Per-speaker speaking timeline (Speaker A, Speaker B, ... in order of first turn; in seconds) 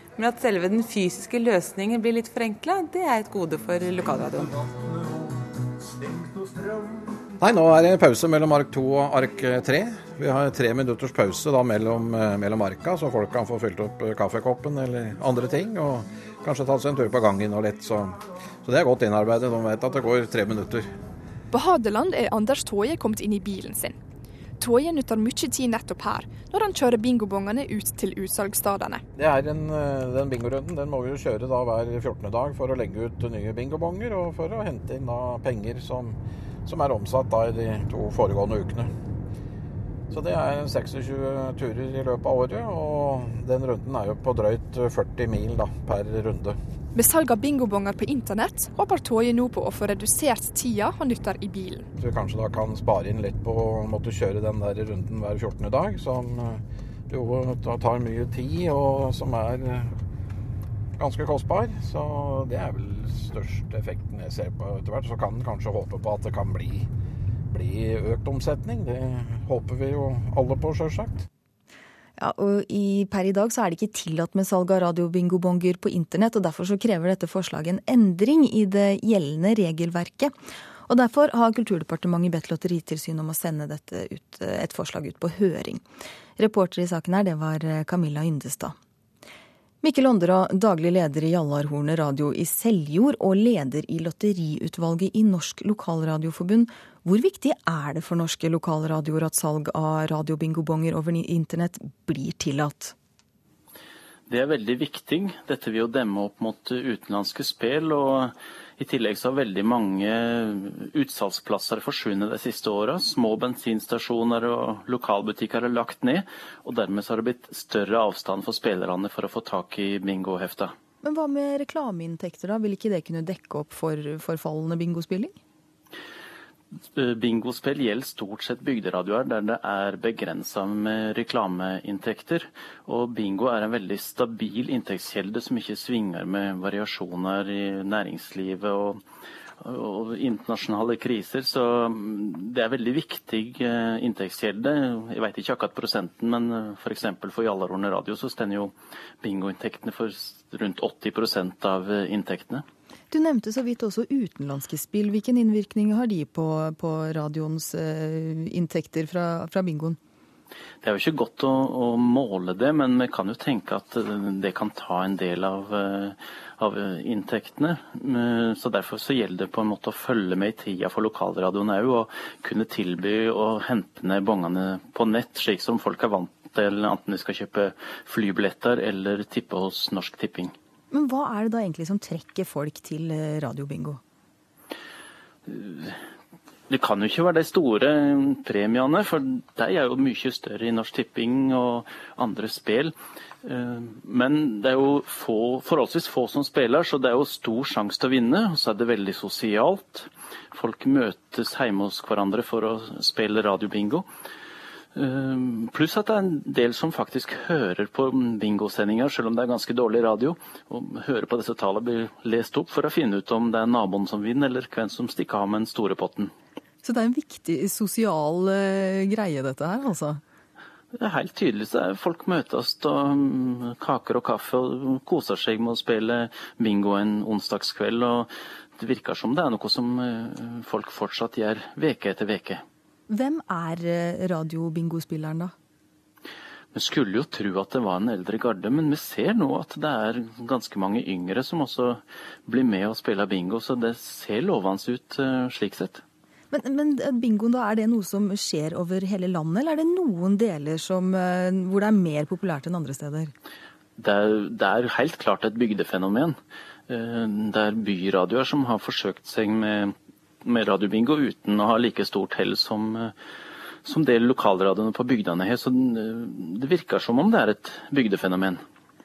Speaker A: 0.2-4.6
Speaker B: 7.4-20.9, 29.1-38.9, 40.1-46.6, 52.0-60.0, 61.0-66.9, 67.5-71.2
Speaker C: 21.5-24.0, 24.6-29.0, 46.9-51.9
Speaker D: 72.2-80.3, 80.9-85.8, 86.4-88.7, 89.8-102.9, 121.0-125.3, 153.1-160.0, 180.9-184.0, 216.8-220.2, 233.1-235.5, 246.5-253.3
Speaker E: 104.3-120.7, 126.9-139.0, 139.6-152.6, 160.8-180.5, 185.5-186.0, 186.7-204.1, 204.9-216.3, 220.9-232.6, 236.7-246.0, 254.0-263.1, 263.8-268.6